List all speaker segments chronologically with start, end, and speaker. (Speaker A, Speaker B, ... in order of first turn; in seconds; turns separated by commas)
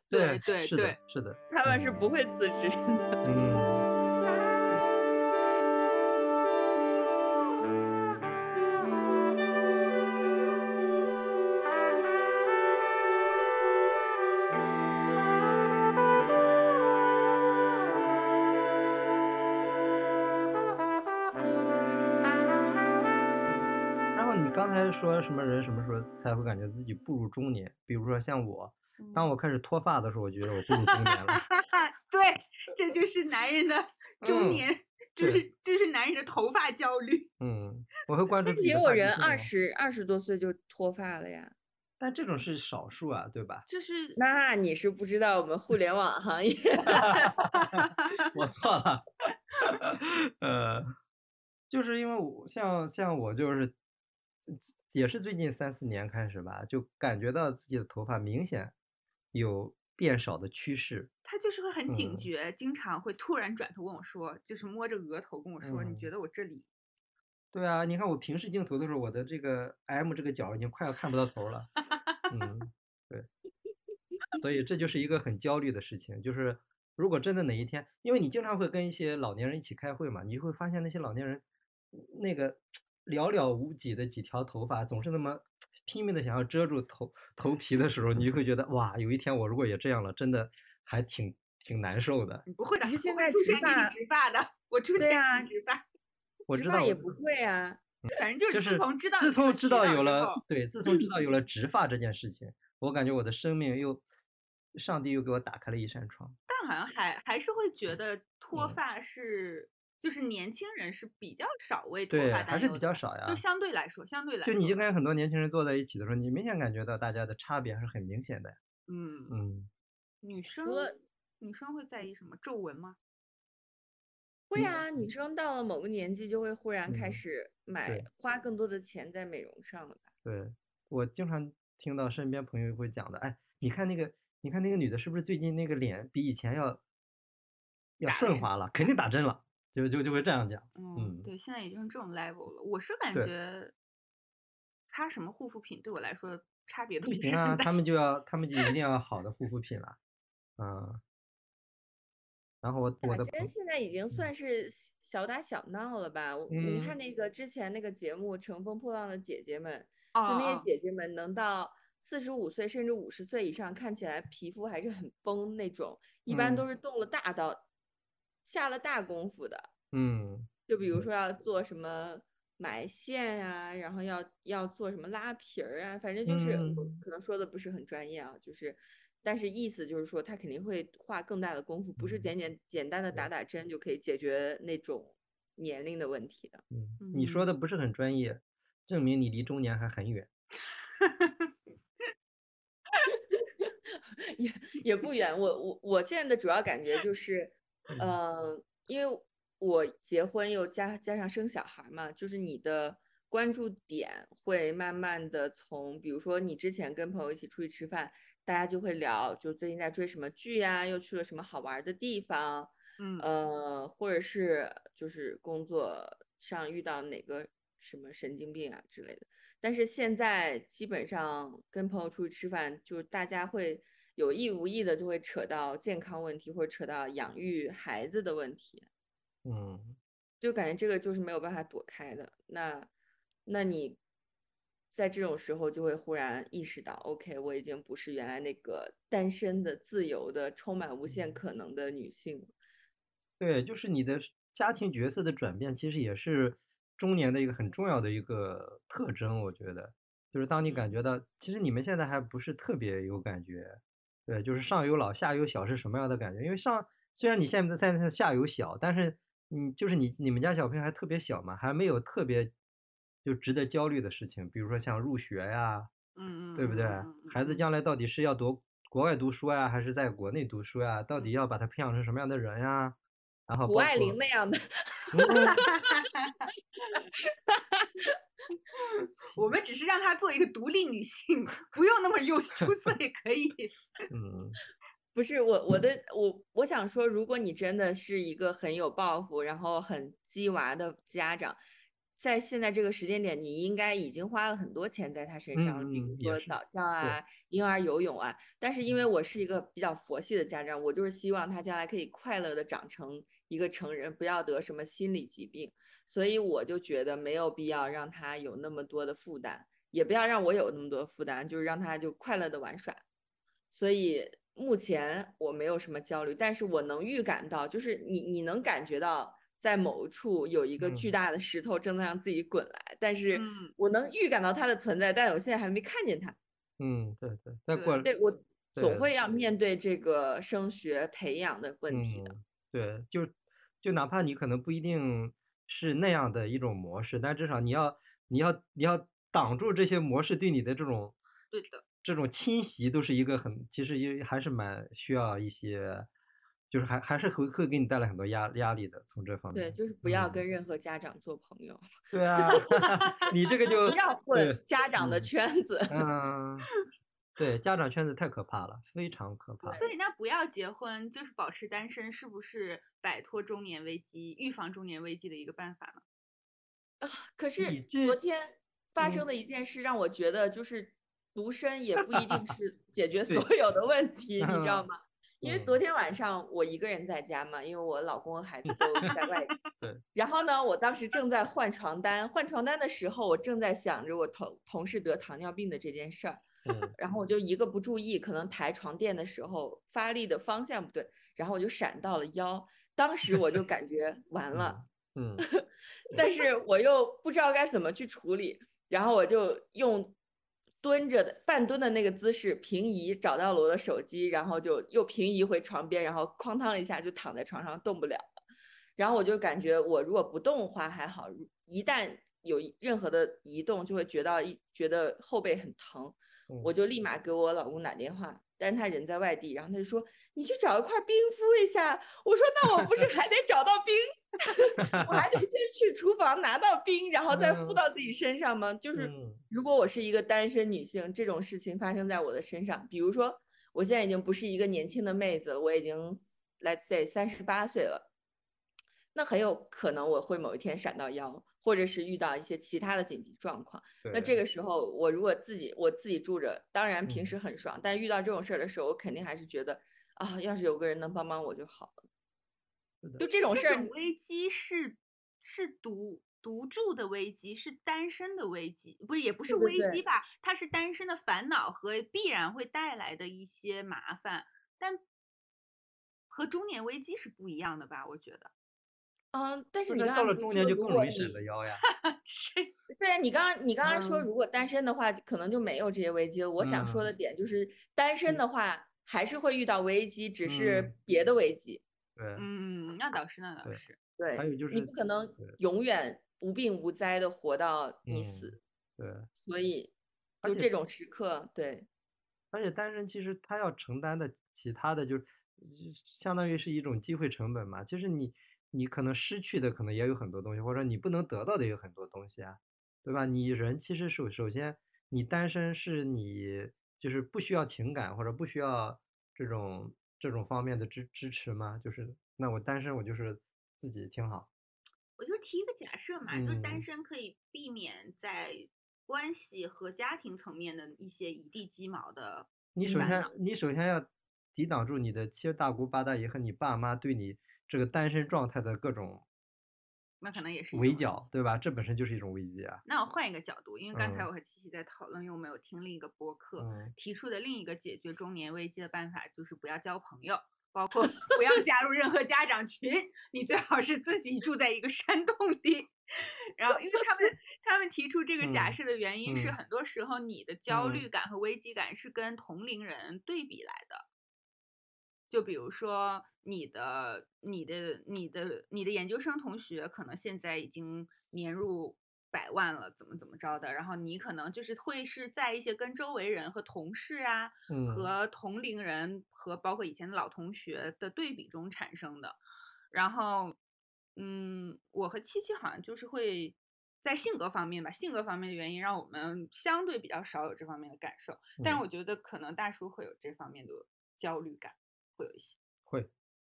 Speaker A: 0.1-1.0, Speaker B: 0.1-2.0, Speaker C: 1.5-3.2, Speaker B: 3.2-3.9, Speaker B: 24.1-31.4, Speaker A: 29.0-29.3, Speaker A: 30.8-37.3, Speaker B: 34.2-35.5, Speaker B: 37.4-39.5, Speaker C: 38.4-41.5, Speaker B: 42.0-43.7, Speaker A: 43.7-44.2, Speaker C: 44.2-47.4, Speaker B: 46.9-49.1, Speaker A: 47.6-48.3, Speaker B: 49.8-50.9, Speaker B: 51.7-53.7, Speaker B: 54.5-58.7, Speaker B: 59.3-61.1, Speaker A: 61.2-66.7, Speaker B: 61.9-62.3, Speaker B: 65.6-66.1, Speaker B: 67.5-71.7, Speaker B: 72.3-73.3, Speaker B: 74.4-92.5, Speaker A: 92.5-95.8, Speaker C: 92.8-93.9, Speaker C: 95.0-95.5, Speaker C: 96.5-97.8, Speaker B: 96.5-97.1, Speaker B: 98.0-104.0, Speaker A: 98.2-100.4, Speaker B: 104.8-106.4, Speaker A: 106.5-114.8, Speaker B: 112.1-113.4, Speaker B: 114.5-118.6, Speaker A: 118.9-119.4, Speaker B: 119.3-119.7, Speaker A: 120.2-123.0, Speaker C: 120.6-121.0, Speaker C: 124.5-130.1, Speaker B: 124.6-124.8, Speaker B: 126.9-127.2, Speaker B: 130.2-136.8, Speaker B: 138.0-141.3, Speaker A: 138.1-138.9, Speaker A: 140.8-143.7, Speaker A: 144.9-147.7, Speaker B: 147.1-150.0, Speaker B: 150.6-151.0, Speaker B: 152.6-153.5, Speaker C: 153.0-167.7, Speaker B: 156.5-156.9, Speaker A: 160.2-160.7, Speaker B: 166.3-166.7, Speaker C: 168.4-169.7, Speaker B: 169.9-171.1, Speaker C: 170.7-186.6, Speaker B: 176.3-177.0, Speaker B: 182.0-182.3, Speaker B: 186.7-190.3, Speaker A: 187.0-187.5, Speaker A: 191.0-191.5, Speaker C: 193.4-228.9, Speaker A: 213.0-213.3, Speaker B: 229.4-230.0, Speaker C: 230.4-232.9, Speaker C: 233.5-234.0, Speaker C: 234.9-242.5, Speaker B: 243.4-262.5, Speaker A: 250.7-251.0, Speaker B: 263.2-265.9, Speaker A: 266.2-267.6, Speaker B: 266.6-273.0, Speaker B: 273.5-274.2, Speaker C: 273.7-275.6, Speaker B: 275.1-275.6, Speaker A: 275.3-276.5, Speaker C: 277.3-278.1, Speaker A: 279.3-283.7, Speaker B: 284.1-284.6, Speaker C: 285.1-291.6, Speaker C: 292.2-313.0, Speaker B: 295.6-297.2, Speaker C: 313.7-326.4, Speaker B: 320.8-321.1, Speaker A: 323.3-323.7, Speaker B: 326.8-328.1, Speaker A: 327.7-328.0, Speaker C: 328.0-332.4, Speaker B: 328.8-329.1, Speaker B: 331.9-341.2, Speaker A: 341.5-341.8, Speaker B: 342.0-346.1, Speaker B: 346.7-350.4, Speaker C: 349.5-351.8, Speaker B: 352.1-355.3, Speaker C: 352.3-352.6, Speaker A: 352.7-353.1, Speaker C: 353.9-356.1, Speaker B: 355.9-356.7, Speaker B: 357.4-359.8, Speaker C: 359.6-359.9, Speaker A: 359.8-366.0, Speaker C: 367.0-379.5, Speaker B: 367.6-368.2, Speaker B: 369.0-369.2, Speaker B: 374.4-374.9, Speaker B: 375.4-375.8, Speaker A: 379.0-379.3, Speaker C: 380.1-386.5, Speaker B: 386.6-386.9, Speaker C: 387.0-394.8, Speaker B: 394.5-395.4, Speaker C: 395.4-400.1, Speaker C: 400.8-408.3, Speaker C: 409.0-438.1, Speaker B: 424.8-425.4, Speaker B: 427.3-427.8, Speaker B: 428.9-429.4, Speaker C: 439.1-452.0, Speaker B: 444.0-444.4, Speaker B: 447.1-447.3, Speaker C: 453.2-453.9, Speaker A: 453.3-465.0, Speaker C: 459.5-460.0, Speaker A: 466.3-468.5, Speaker C: 469.3-471.4, Speaker B: 469.9-471.8, Speaker A: 471.9-472.7, Speaker C: 472.9-481.8, Speaker A: 473.9-474.3, Speaker B: 476.6-477.1, Speaker B: 480.5-480.9, Speaker B: 482.2-482.5, Speaker A: 482.4-484.0, Speaker C: 484.2-488.6, Speaker B: 484.4-485.6, Speaker B: 488.1-489.3, Speaker C: 489.4-491.9, Speaker B: 490.4-490.7, Speaker B: 492.5-514.5, Speaker A: 515.2-523.3, Speaker B: 516.3-516.8, Speaker B: 522.8-529.2, Speaker A: 530.2-531.2, Speaker B: 530.7-532.8, Speaker A: 532.9-554.1, Speaker B: 533.9-534.3, Speaker B: 536.6-536.9, Speaker B: 548.4-549.6, Speaker B: 550.7-551.1, Speaker A: 555.3-572.4, Speaker B: 567.7-568.1, Speaker A: 572.9-573.6, Speaker A: 574.2-585.6, Speaker B: 581.6-581.8